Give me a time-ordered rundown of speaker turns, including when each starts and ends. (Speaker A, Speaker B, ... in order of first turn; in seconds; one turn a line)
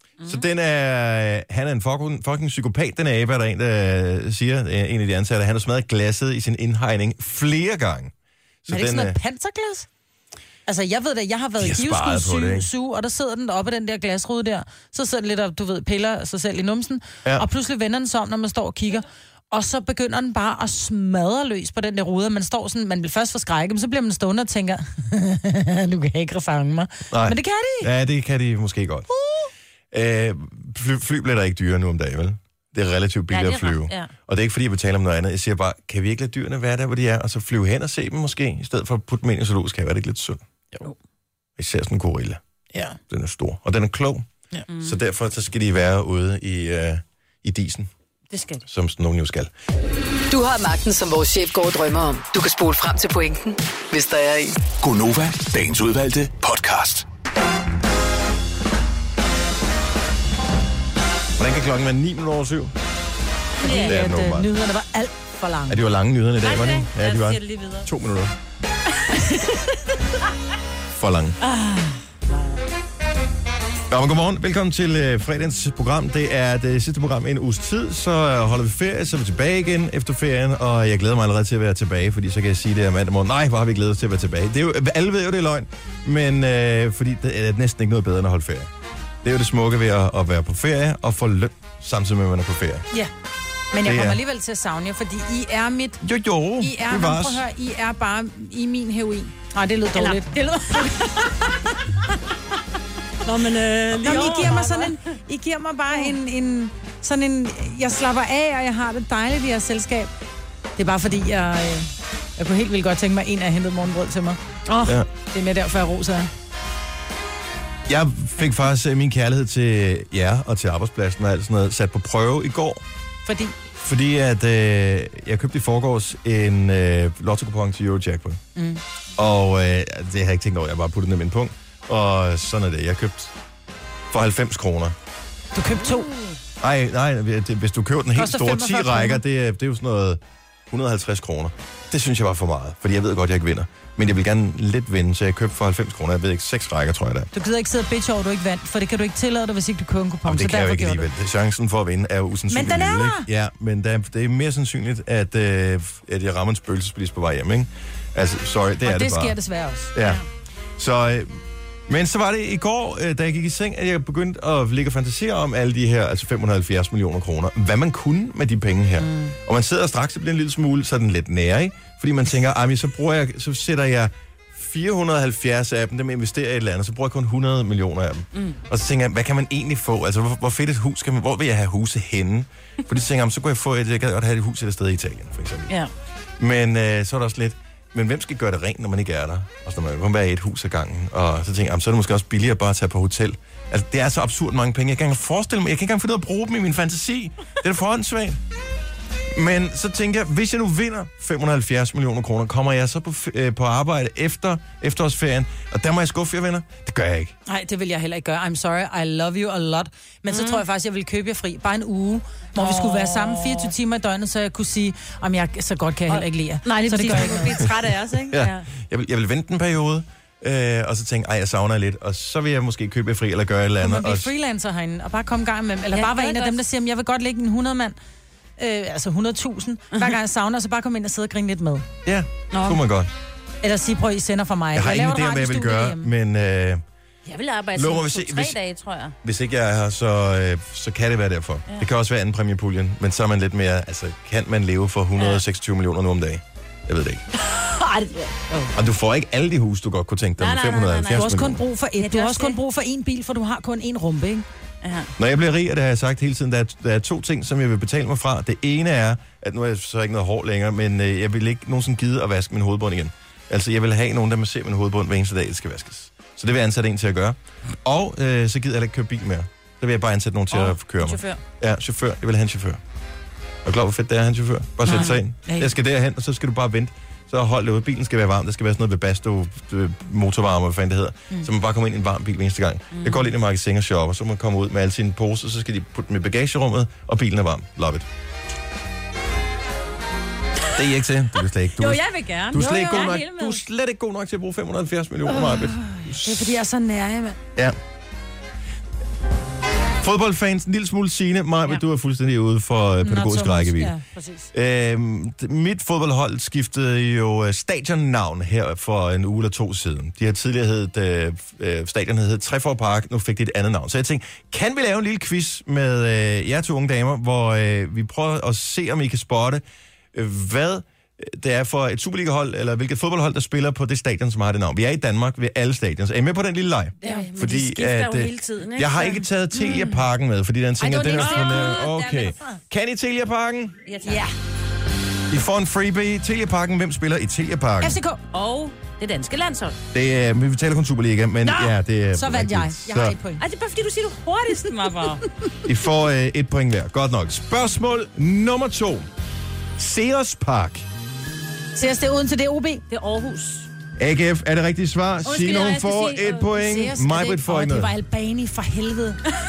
Speaker A: 0.2-8.1
Speaker A: 8.6-9.2
Speaker B: 8.7-9.9
Speaker B: 10.7-27.9
Speaker A: 11.6-12.7
Speaker A: 27.1-29.1
Speaker B: 29.1-29.5
Speaker A: 29.9-40.4
Speaker C: 33.3-34.1
Speaker A: 41.6-42.4
Speaker B: 42.7-43.0
Speaker A: 43.1-44.2
Speaker C: 44.7-45.0
Speaker A: 44.8-47.9
Speaker C: 48.3-48.6
Speaker A: 48.6-49.5
Speaker D: 50.3-54.6
Speaker E: 54.8-57.0
Speaker A: 61.4-62.7
Speaker C: 63.6-63.9
Speaker B: 63.6-65.8
Speaker A: 63.7-64.5
Speaker A: 65.7-68.3
Speaker C: 66.4-67.9
Speaker C: 69.0-69.8
Speaker A: 70.9-71.4
Speaker C: 71.4-72.5
Speaker A: 73.9-88.7
Speaker A: 89.2-92.9
Speaker B: 93.7-96.0
Speaker A: 93.8-94.2
Speaker A: 96.0-97.4
Speaker B: 96.6-101.1
Speaker C: 99.9-101.5
Speaker C: 103.2-105.0
Speaker B: 104.0-110.1
Speaker B: 110.8-116.3
Speaker A: 117.9-122.8
Speaker B: 123.2-123.5
Speaker A: 123.8-128.4
Speaker B: 128.6-128.8
Speaker A: 129.2-133.3
Speaker A: 134.1-134.9
Speaker B: 135.5-136.1
Speaker A: 136.6-147.3
Speaker B: 138.2-139.2
Speaker B: 147.3-151.1
Speaker A: 150.2-159.4
Speaker B: 152.5-153.3
Speaker B: 158.8-159.9
Speaker A: 159.9-160.2
Speaker A: 160.8-185.7
Speaker B: 169.0-169.3
Speaker C: 178.3-178.6
Speaker A: 186.4-198.4
Speaker A: 199.3-207.3
Speaker B: 207.4-217.6
Speaker C: 210.3-210.6
Speaker C: 212.6-213.7
Speaker C: 216.1-218.7
Speaker A: 218.3-224.3
Speaker B: 223.8-227.9
Speaker C: 225.9-226.6
Speaker B: 228.6-231.9
Speaker A: 232.0-233.1
Speaker C: 232.5-232.8
Speaker B: 233.6-236.1
Speaker A: 234.7-236.8
Speaker C: 237.2-239.1
Speaker A: 237.7-238.6
Speaker A: 239.2-247.2
Speaker C: 245.2-245.4
Speaker C: 247.4-248.7
Speaker A: 248.7-251.6
Speaker C: 250.4-251.4
Speaker B: 251.1-254.4
Speaker C: 252.0-252.6
Speaker C: 254.8-255.1
Speaker A: 255.2-272.8
Speaker C: 270.5-271.4
Speaker A: 273.6-288.1
Speaker C: 274.9-275.1
Speaker B: 274.9-275.7
Speaker C: 282.9-283.3
Speaker A: 290.7-296.6
Speaker C: 291.8-293.6
Speaker B: 292.6-293.1
Speaker B: 295.3-297.4
Speaker A: 300.0-303.9
Speaker B: 303.0-304.4
Speaker A: 304.5-319.6
Speaker A: 320.1-333.8
Speaker B: 327.0-327.3
Speaker C: 327.0-329.2
Speaker B: 329.7-329.9
Speaker B: 330.8-331.8
Speaker C: 331.0-332.6
Speaker C: 333.9-334.3
Speaker B: 334.0-334.3
Speaker A: 335.3-337.9
Speaker B: 337.8-338.2
Speaker C: 338.3-339.8
Speaker A: 339.9-343.1
Speaker B: 341.4-343.4
Speaker C: 343.4-345.2
Speaker A: 345.6-349.1
Speaker A: 349.8-350.9
Speaker B: 351.7-352.8
Speaker C: 352.9-353.7
Speaker A: 354.0-357.9
Speaker C: 355.2-356.4
Speaker B: 355.6-359.2